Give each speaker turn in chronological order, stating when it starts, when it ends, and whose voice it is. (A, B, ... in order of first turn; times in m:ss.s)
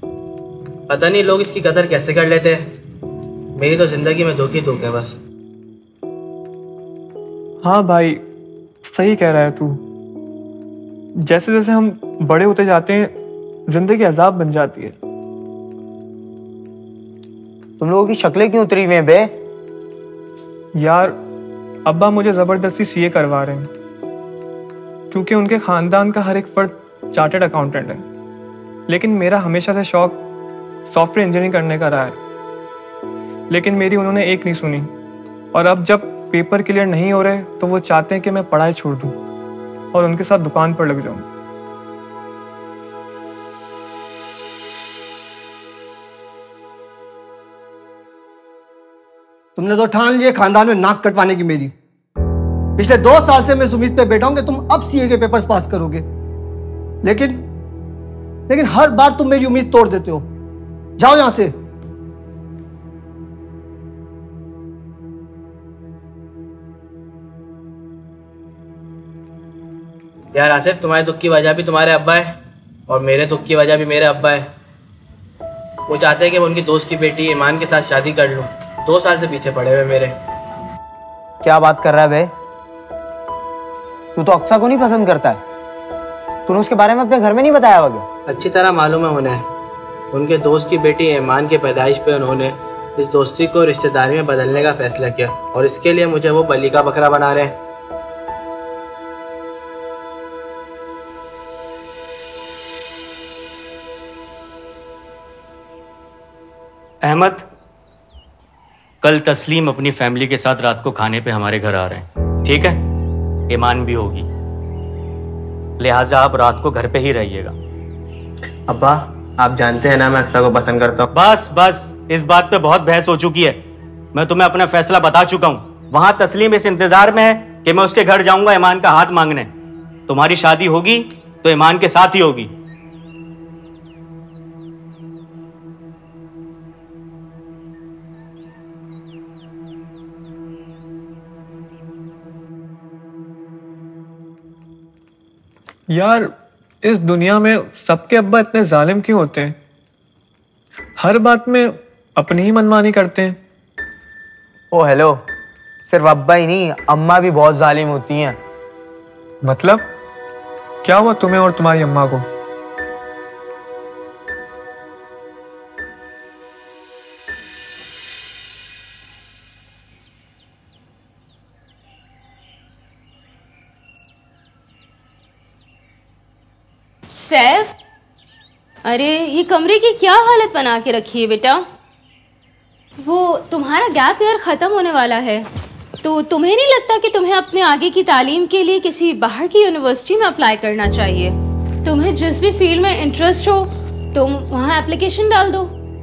0:00.9-0:02.7 A
0:03.6-0:05.1 A
0:07.6-0:08.2 B
0:08.8-0:09.8 B
0:11.2-0:13.1 B
0:13.7-0:15.0 B
0:17.8-0:19.3 C
0:20.8-0:21.2 B
0:21.8-0:23.7 B
0:25.1-0:28.0 B
0:28.9-0:30.2 B
0:30.9-0:32.2 B
0:33.5-0:34.9 B
0:35.5-0:39.2 B
0:39.9-0:41.3 B
0:49.6-0:51.7 D
0:52.8-0:56.0 D
0:57.0-0:57.4 D
0:58.5-1:00.2 D
1:01.0-1:01.5 D
1:10.3-1:12.3 A
1:12.9-1:14.4 A
1:15.9-1:20.1 A
1:21.4-1:22.3 C
1:24.2-1:25.4 C
1:26.5-1:28.0 C
1:28.3-1:29.4 A
1:30.1-1:37.5 A
1:47.0-1:47.4 E
1:49.0-1:52.8 E
1:53.5-1:54.3 E
1:55.8-1:57.5 E
1:58.7-2:01.1 A
2:01.1-2:03.6 E
2:04.1-2:09.5 E
2:10.1-2:12.5 E
2:25.9-2:26.3 B
2:26.8-2:29.6 B
2:31.0-2:33.4 B
2:34.7-2:35.2 C
2:35.8-2:38.4 C
2:39.4-2:39.9 B
2:40.8-2:42.2 B
2:57.1-2:57.7 F
2:58.8-3:01.6 F
3:03.0-3:05.4 F
3:06.0-3:15.7 F